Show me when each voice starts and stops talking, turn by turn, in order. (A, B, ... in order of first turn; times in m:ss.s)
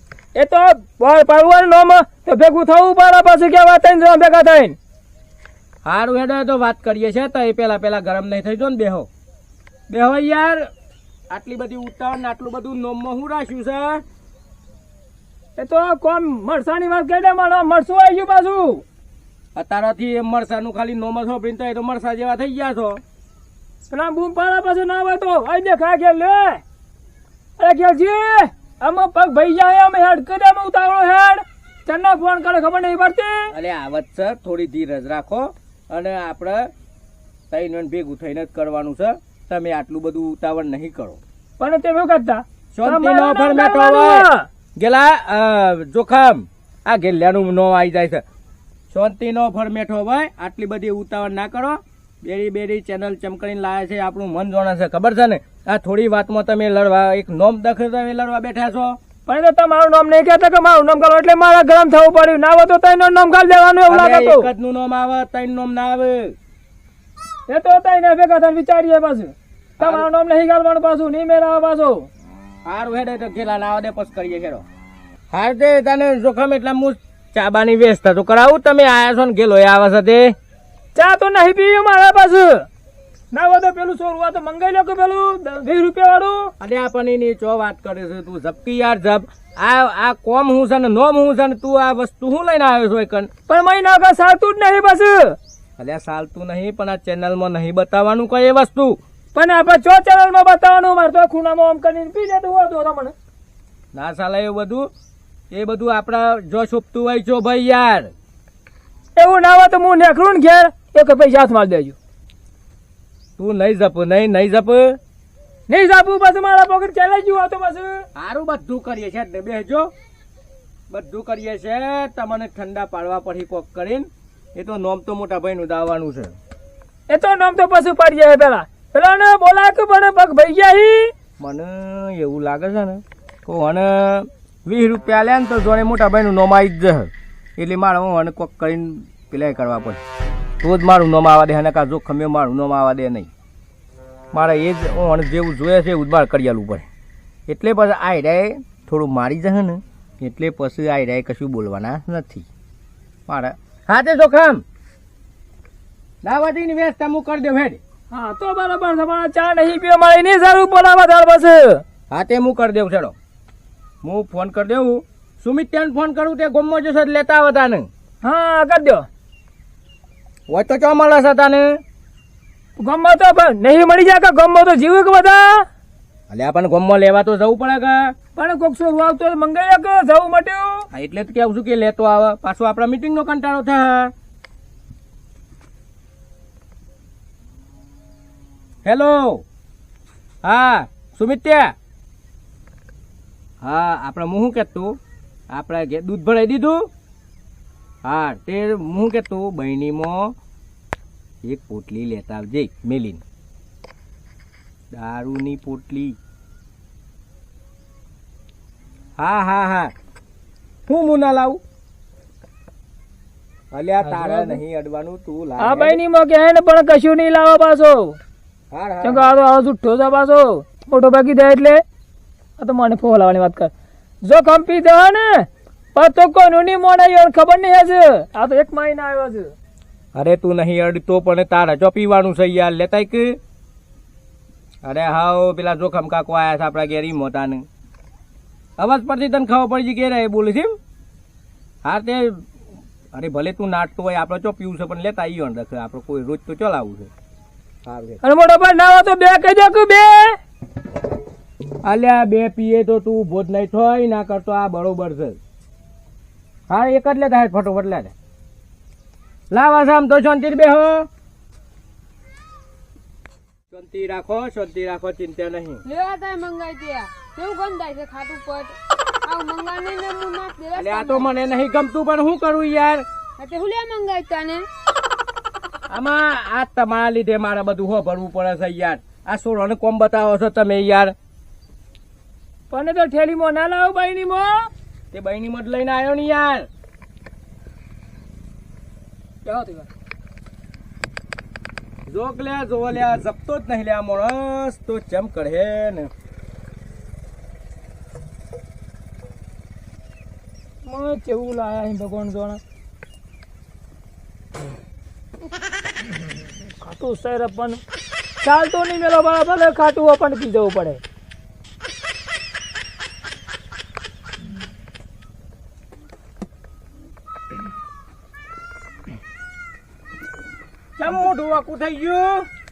0:00.3-0:04.8 A
0:05.8-0:09.1 B
0:09.9-0:10.7 B
0:11.3-0:14.0 B
0:15.6-0:18.8 A
0:19.5-0:23.0 B
0:23.9-0:26.6 A
0:27.6-0:33.5 A
0:33.5-0:36.7 B
0:37.5-0:41.2 B
0:41.6-0:44.5 A
0:42.7-0:44.2 B
0:44.8-0:48.2 B
0:48.9-0:59.0 B
0:59.2-1:04.5 A
1:03.9-1:06.4 B
1:07.5-1:12.1 A
1:09.8-1:10.1 B
1:12.6-1:14.6 B
1:15.3-1:20.3 B
1:20.9-1:22.6 A
1:23.3-1:26.5 A
1:26.6-1:33.3 B
1:33.5-1:35.4 A
1:35.8-1:39.0 B
1:39.3-1:43.1 A
1:43.9-1:44.9 B
1:45.5-1:48.1 B
1:49.2-1:52.0 A
1:53.4-1:55.0 B
1:55.7-1:58.0 A
1:58.1-1:59.9 B
2:00.9-2:06.3 B
2:07.1-2:11.1 A
2:11.4-2:20.0 B
2:20.6-2:23.3 B
2:24.3-2:26.9 B
2:27.5-2:32.5 B
2:33.3-2:34.6 B
2:36.2-2:37.8 B
2:38.1-2:41.8 A
2:42.1-2:43.1 B
2:44.0-2:47.9 B
2:48.2-2:49.0 A
2:50.5-2:51.8 B
2:52.8-2:55.6 A
2:56.3-2:58.1 B
2:58.3-3:00.8 A
3:00.9-3:04.1 B
3:08.8-3:09.4 B
3:10.4-3:11.7 B
3:13.6-3:15.0 B
3:15.5-3:16.9 B
3:18.0-3:20.3 B
3:21.4-3:23.2 B
3:24.9-3:26.2 B
3:29.2-3:29.9 B
3:30.9-3:31.6 B
3:33.7-3:36.0 B
3:34.0-3:34.6 A
3:35.6-3:38.2 A
3:38.7-3:39.3 B
3:39.0-3:41.8 A
3:42.6-3:43.7 A
3:44.2-3:49.5 A
3:50.1-3:53.4 B
3:54.8-3:57.6 B
3:58.8-4:00.7 B
4:01.8-4:02.4 B
4:03.1-4:07.1 B
4:07.8-4:08.2 B
4:08.2-4:10.4 A
4:11.8-4:15.4 B
4:16.7-4:18.1 B
4:19.5-4:21.1 B
4:23.7-4:25.8 B
4:25.8-4:31.3 C
4:30.8-4:33.0 B
4:33.4-4:34.7 C
4:35.9-4:41.1 B
4:42.7-4:44.7 A
4:45.1-4:46.7 B
4:49.4-4:49.9 A
4:52.1-4:56.1 B
5:00.8-5:02.6 A
5:06.8-5:07.8 A
5:08.4-5:11.0 A
5:21.0-5:22.5 B